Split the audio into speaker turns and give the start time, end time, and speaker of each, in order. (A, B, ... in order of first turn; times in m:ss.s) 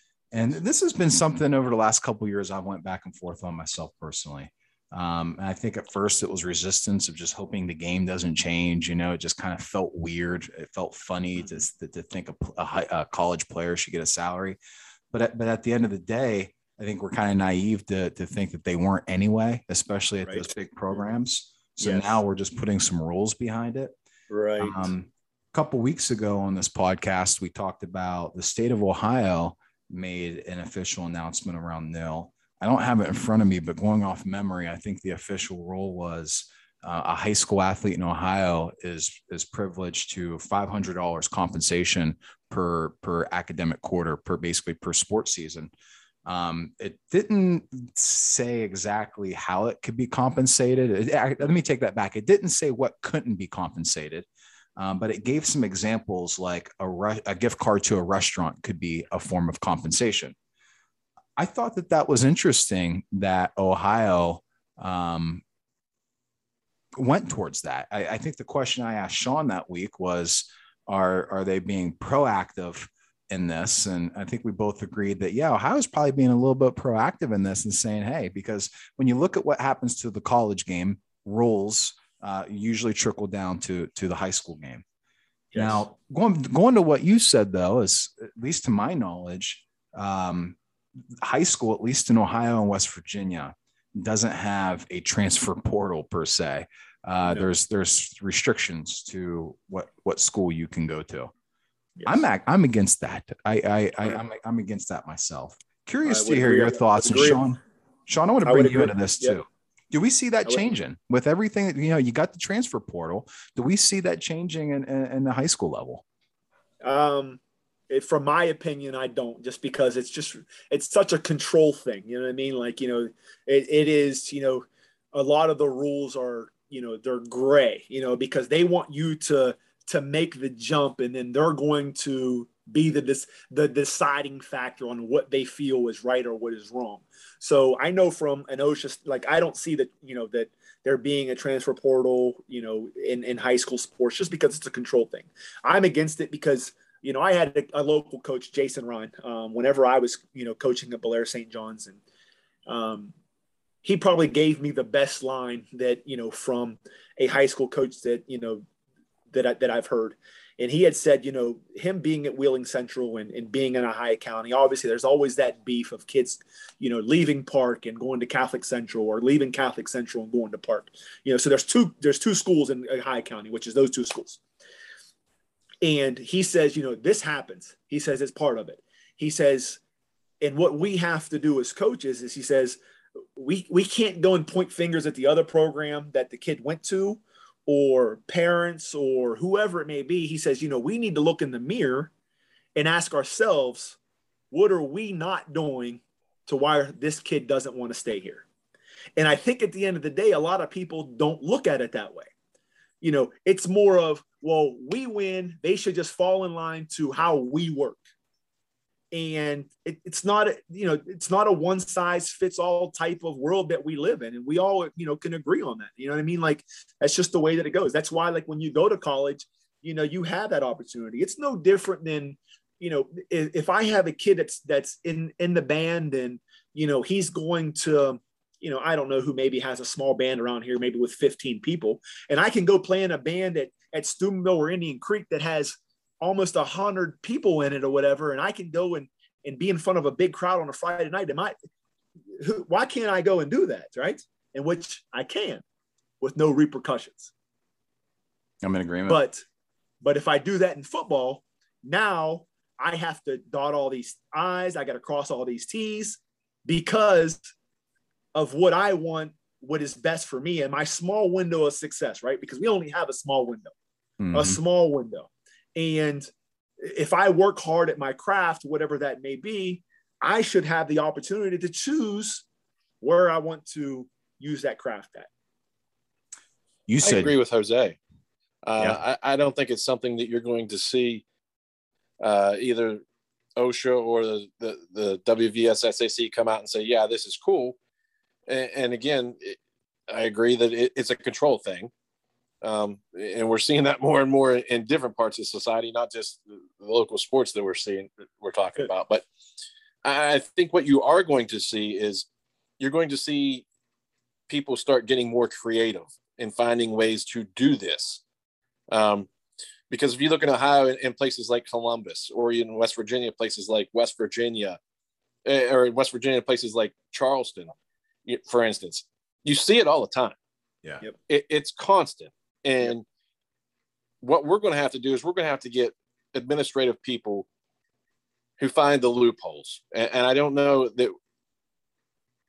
0:00.3-0:14.6 A
0:15.1-0:24.0 A
0:21.8-0:22.2 B
0:24.3-0:24.9 B
0:24.6-0:45.7 A
0:46.3-1:00.4 A
1:01.4-1:05.4 A
1:07.0-1:24.8 A
1:25.5-1:25.8 B
1:25.6-1:30.6 A
1:31.2-1:41.3 A
1:42.0-1:42.2 B
1:42.0-1:56.0 A
1:46.1-1:47.4 B
1:48.4-1:49.4 B
1:56.8-2:32.0 B
2:32.7-2:33.1 B
2:33.8-2:38.6 B
2:39.3-2:54.4 B
2:55.8-2:59.8 B
3:00.4-3:02.8 B
3:03.4-3:12.1 B
3:12.8-3:14.0 B
3:14.5-3:18.4 B
3:19.2-3:22.3 B
3:23.0-3:28.0 B
3:29.1-4:01.6 B
4:02.4-4:05.6 B
4:06.2-4:07.3 B
4:08.6-4:09.2 A
4:09.1-4:09.4 B
4:10.0-4:17.5 B
4:18.4-4:23.7 B
4:24.2-4:24.6 A
4:24.3-4:32.4 B
4:33.0-4:35.3 B
4:36.9-4:37.3 A
4:37.0-4:38.0 C
4:38.6-4:41.2 C
4:42.2-4:43.0 C
4:43.6-4:47.8 C
4:48.5-4:49.6 C
4:50.1-4:51.9 C
4:52.6-4:59.2 C
5:00.0-5:02.3 C
5:02.8-5:03.6 C
5:04.5-5:08.2 C
5:08.9-5:09.3 C
5:09.9-5:14.8 C
5:15.4-5:17.7 C
5:18.3-5:20.4 C
5:21.3-5:23.0 C
5:24.2-5:27.5 C
5:28.6-5:31.1 C